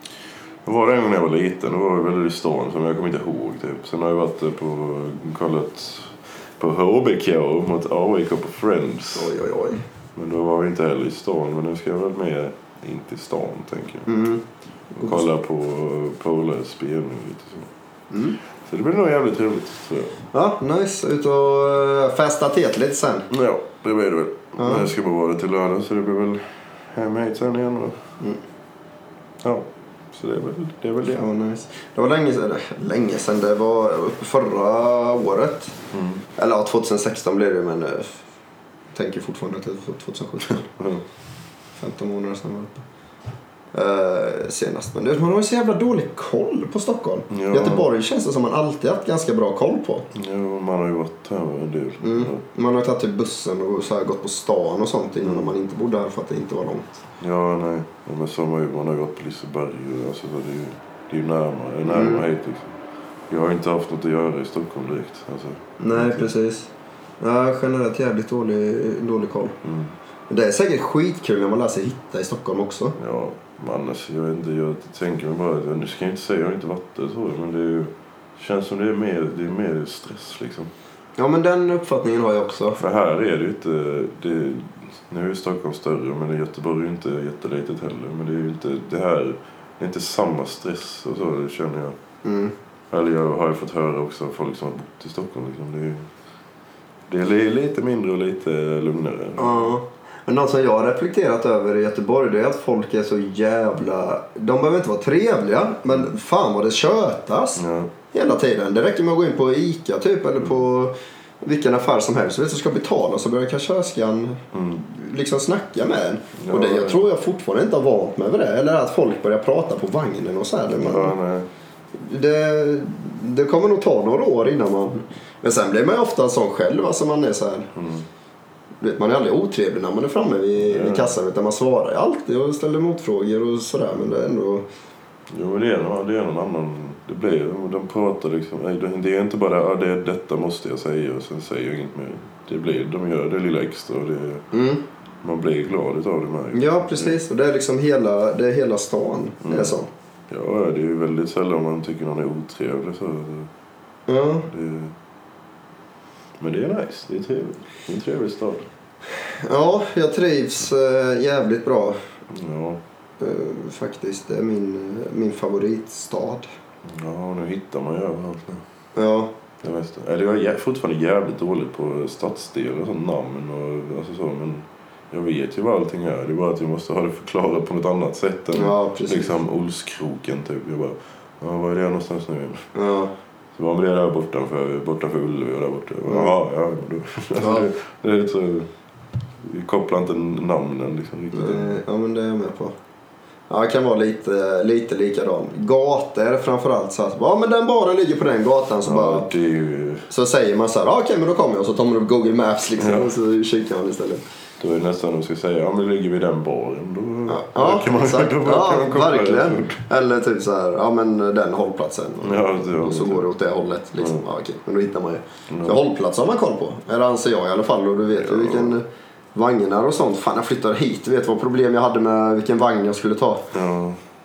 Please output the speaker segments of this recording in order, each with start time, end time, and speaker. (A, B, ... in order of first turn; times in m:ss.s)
0:00.6-0:09.3 A
0:09.1-0:09.8 B
0:10.2-0:14.1 A
0:14.1-0:15.2 B
0:15.0-0:17.7 A
0:18.1-0:18.4 B
0:18.6-0:20.2 A
0:20.3-0:23.3 B
0:23.3-0:28.0 A
0:24.6-0:24.9 B
0:29.4-0:31.2 A
0:31.0-0:35.8 B
0:35.9-0:36.2 A
0:36.4-0:38.2 B
0:38.9-0:40.7 B
0:40.8-0:41.0 A
0:41.8-0:42.8 B
0:43.7-0:50.1 B
0:47.3-0:47.9 A
0:50.1-0:52.4 A
0:52.0-0:57.0 B
0:55.2-0:55.5 A
0:57.2-1:02.8 A
1:01.9-1:02.2 B
1:03.3-1:06.3 A
1:05.8-1:06.7 B
1:07.2-1:09.6 B
1:09.6-1:09.9 A
1:10.3-1:13.0 B
1:13.0-1:20.7 A
1:21.2-1:22.8 B
1:22.8-1:32.0 A
1:32.2-1:32.5 B
1:32.9-1:36.1 A
1:37.1-1:39.7 A
1:39.4-2:01.2 B
1:47.6-1:47.9 A
1:54.5-1:54.8 A
1:56.4-1:57.1 A
2:00.8-2:01.5 A
2:02.0-2:07.7 B
2:07.7-2:08.0 A
2:08.8-2:14.7 B
2:10.6-2:11.2 A
2:15.3-2:24.4 A
2:24.5-2:24.8 B
2:25.2-2:27.2 A
2:26.5-2:29.9 B
2:29.4-2:29.8 A
2:30.3-2:33.5 A
2:34.1-2:34.5 B
2:34.5-2:34.9 A
2:36.4-2:38.7 A
2:39.3-2:42.0 B
2:42.3-2:42.8 A
2:43.2-2:46.5 B
2:46.8-2:48.6 A
2:48.9-2:49.3 B
2:49.6-3:02.7 A
2:58.5-2:59.3 B
3:02.7-3:03.1 B
3:03.5-3:08.7 A
3:06.1-3:06.3 B
3:07.4-3:07.7 B
3:09.4-3:11.8 A
3:11.3-3:12.7 B
3:13.5-3:19.3 B
3:18.8-3:20.1 A
3:20.1-3:24.2 B
3:22.8-3:23.1 A
3:24.6-3:29.8 A
3:27.3-3:43.5 B
3:32.2-3:33.3 A
3:35.5-3:35.8 A
3:38.1-3:38.7 A
3:43.5-3:44.0 A